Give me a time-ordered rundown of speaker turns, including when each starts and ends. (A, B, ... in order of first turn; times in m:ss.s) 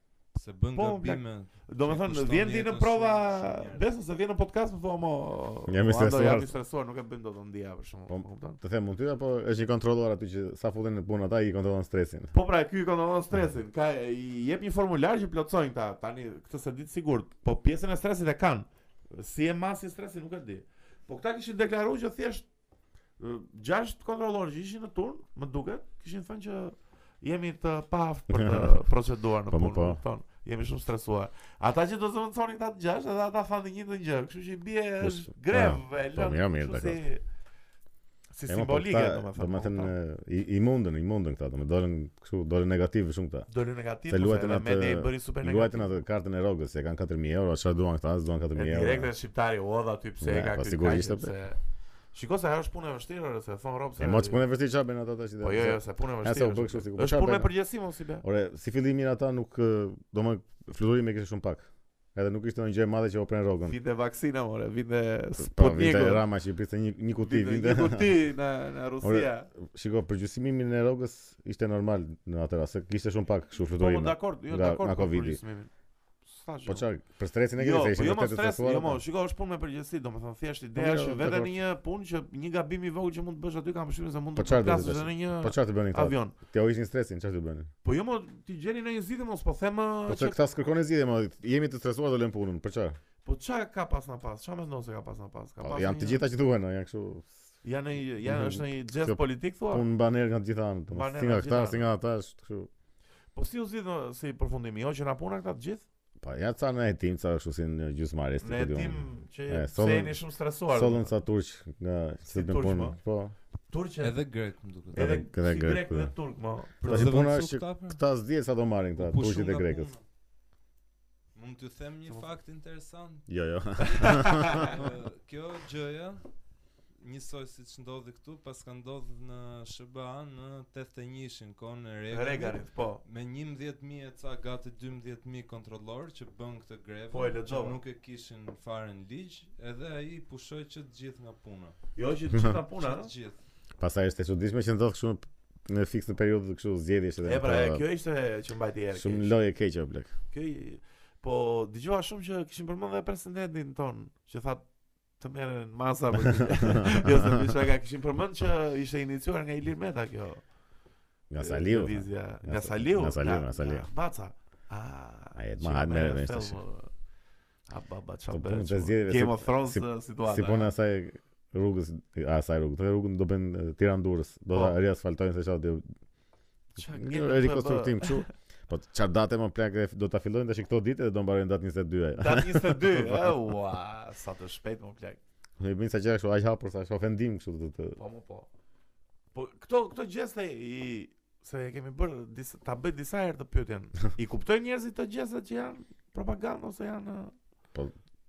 0:00.3-0:03.9 A
0:00.7-0:08.6 B
0:05.7-0:06.5 C
0:08.1-0:12.3 C
0:12.3-0:22.5 B
0:23.2-0:37.2 B
0:28.3-0:28.7 C
0:29.5-0:30.0 C
0:35.0-0:37.0 C
0:38.3-0:39.9 B
0:38.5-0:43.5 C
0:43.5-0:46.0 B
0:44.1-0:49.1 C
0:48.5-0:51.6 B
0:50.2-0:51.3 C
0:52.1-0:54.4 B
0:54.0-0:57.5 C
0:55.4-0:58.2 B
0:58.2-1:03.8 C
1:03.6-1:06.2 B
1:05.4-1:08.1 C
1:07.2-1:09.5 B
1:09.0-1:15.4 C
1:13.8-1:15.7 B
1:16.2-1:16.8 B
1:16.6-1:19.0 C
1:17.6-1:26.4 B
1:20.8-1:21.5 C
1:24.4-1:27.7 C
1:27.8-1:30.4 B
1:30.1-1:33.0 C
1:33.2-1:36.2 B
1:35.6-1:37.3 C
1:37.6-1:39.9 B
1:38.2-1:42.7 C
1:40.9-1:41.8 B
1:43.3-1:45.8 B
1:46.2-1:53.3 C
1:48.4-1:51.1 B
1:52.3-1:53.0 B
1:53.7-1:54.1 B
1:54.0-1:55.2 A
1:54.9-1:56.1 C
1:54.9-1:57.2 B
1:56.8-1:59.9 C
1:56.8-1:58.0 A
1:59.0-2:00.0 A
2:01.3-2:03.2 A
2:03.3-2:04.7 C
2:03.8-2:04.8 B
2:04.6-2:06.2 A
2:07.0-2:21.8 A
2:12.1-2:13.0 B
2:17.1-2:17.8 B
2:22.0-2:23.1 B
2:22.8-2:23.4 A
2:23.8-2:27.8 C
2:27.2-2:29.3 B
2:28.9-2:30.1 C
2:30.3-2:34.6 B
2:35.2-2:40.4 B
2:36.6-2:37.1 C
2:41.3-2:43.8 C
2:41.4-2:46.9 B
2:45.4-2:46.6 C
2:47.7-2:50.7 B
2:48.3-2:55.9 C
2:54.5-2:54.8 B
2:56.8-2:58.3 B
2:56.9-3:03.3 C
3:02.2-3:05.2 B
3:05.6-3:08.0 C
3:08.0-3:08.5 B
3:09.3-3:17.3 B